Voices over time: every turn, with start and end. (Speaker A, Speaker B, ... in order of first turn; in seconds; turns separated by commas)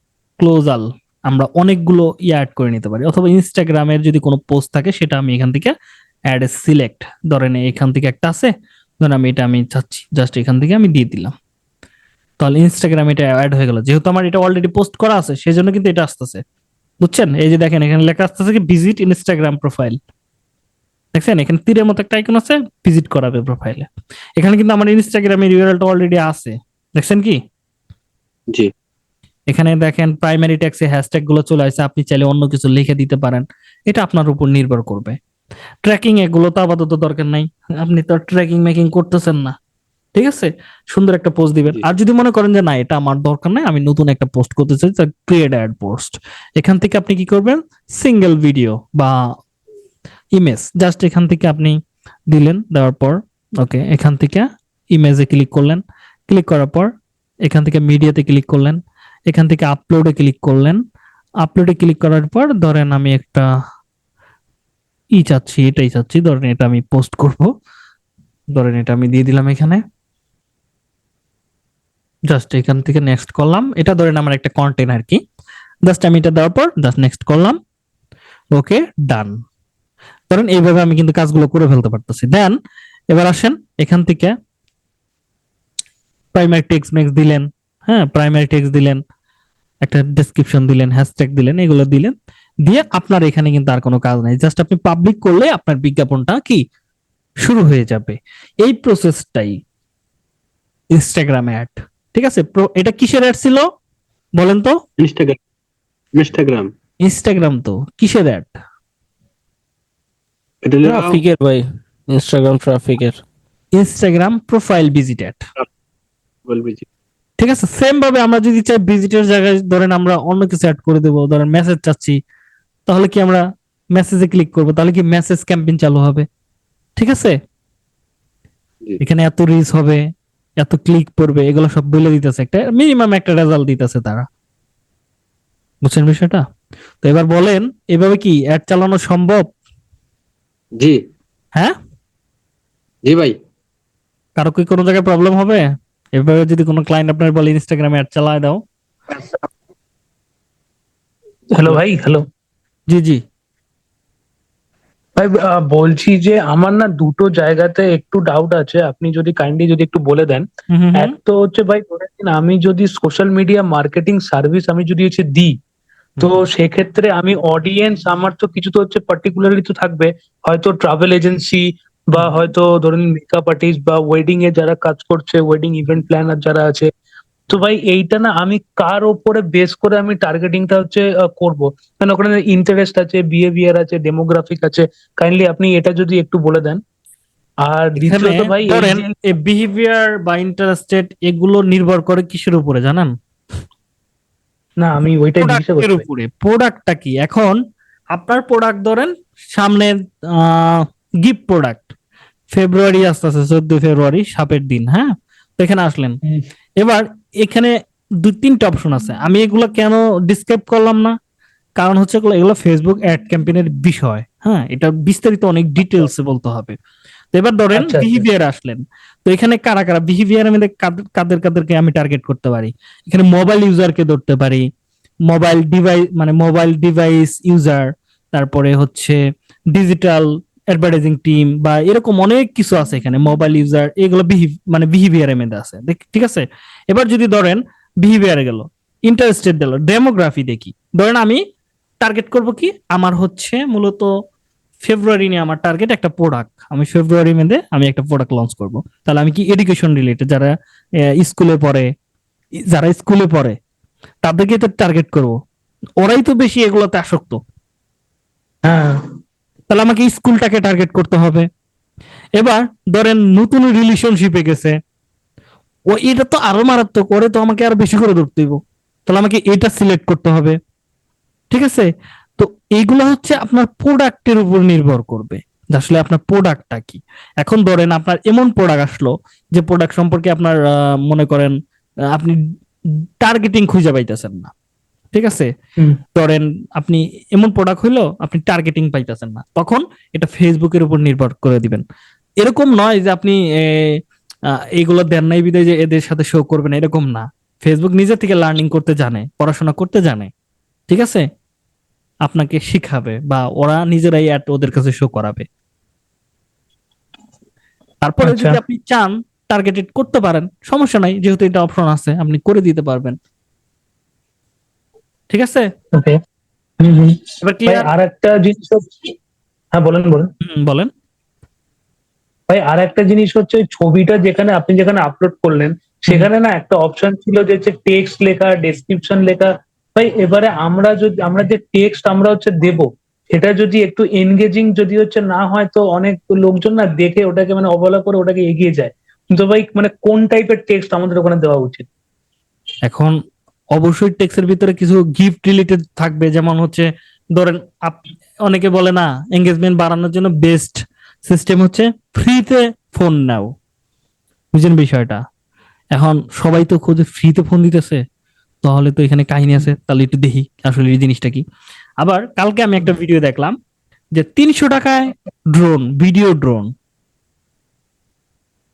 Speaker A: 0.4-5.7, Speaker A: 6.3-11.3, Speaker A: 12.4-16.4, Speaker A: 17.0-20.0, Speaker A: 21.1-27.4, Speaker A: 29.5-35.2, Speaker A: 35.8-39.5, Speaker A: 40.1-49.3, Speaker A: 50.3-51.8, Speaker A: 52.3-56.9, Speaker A: 57.4-60.8, Speaker A: 61.4-63.4, Speaker A: 65.2-67.5, Speaker A: 68.5-69.8, Speaker A: 72.3-75.2, Speaker A: 75.9-77.6, Speaker A: 78.5-79.4, Speaker A: 80.3-82.6, Speaker A: 83.1-84.3, Speaker A: 86.3-89.0, Speaker A: 89.8-92.1, Speaker A: 92.7-96.6, Speaker A: 97.4-99.6, Speaker A: 100.9-103.7, Speaker A: 104.4-104.8, Speaker B: 105.0-105.4, Speaker B: 106.2-106.7, Speaker A: 107.0-108.5, Speaker B: 110.6-111.2, Speaker C: 110.8-113.2, Speaker A: 113.8-115.5, Speaker B: 116.5-116.8, Speaker A: 117.4-122.2, Speaker A: 122.9-123.4, Speaker A: 123.9-126.3, Speaker A: 127.0-127.4, Speaker A: 129.0-130.0, Speaker A: 130.6-134.3, Speaker A: 135.8-136.4, Speaker A: 137.0-139.5, Speaker B: 143.1-143.3, Speaker A: 144.4-148.6, Speaker D: 151.5-152.2, Speaker A: 152.9-153.2, Speaker D: 155.2-160.4, Speaker A: 160.7-161.1, Speaker D: 161.0-165.6, Speaker D: 166.2-176.9, Speaker D: 177.5-186.8, Speaker D: 187.6-189.1, Speaker A: 188.0-193.1, Speaker D: 194.8-196.0, Speaker A: 195.4-197.6, Speaker A: 198.1-201.9, Speaker A: 202.5-206.2, Speaker A: 206.8-211.2, Speaker A: 211.8-216.8, Speaker A: 217.3-224.7, Speaker D: 217.8-218.2, Speaker A: 225.3-229.2, Speaker A: 229.7-241.4, Speaker A: 242.0-244.1, Speaker A: 244.8-250.5, Speaker A: 251.1-251.9, Speaker A: 252.7-253.6, Speaker A: 254.2-255.4, Speaker A: 256.0-257.4, Speaker D: 258.6-259.0, Speaker A: 259.7-261.5, Speaker A: 262.4-264.8, Speaker A: 265.9-270.6, Speaker A: 271.5-281.6, Speaker A: 282.1-282.4, Speaker A: 282.9-284.5, Speaker A: 285.1-285.5, Speaker A: 286.1-291.8, Speaker A: 292.4-294.0, Speaker A: 294.8-300.3, Speaker A: 300.9-301.3, Speaker A: 302.2-305.4, Speaker A: 308.0-313.2, Speaker D: 308.2-308.6, Speaker A: 315.3-315.7, Speaker D: 316.8-319.1, Speaker A: 317.4-317.9, Speaker D: 319.8-320.3, Speaker A: 320.4-320.9, Speaker D: 322.5-341.9, Speaker A: 342.8-343.2, Speaker A: 343.7-353.5, Speaker A: 354.5-355.2, Speaker A: 355.9-358.0, Speaker A: 358.6-361.4, Speaker A: 362.0-363.6, Speaker A: 364.1-366.7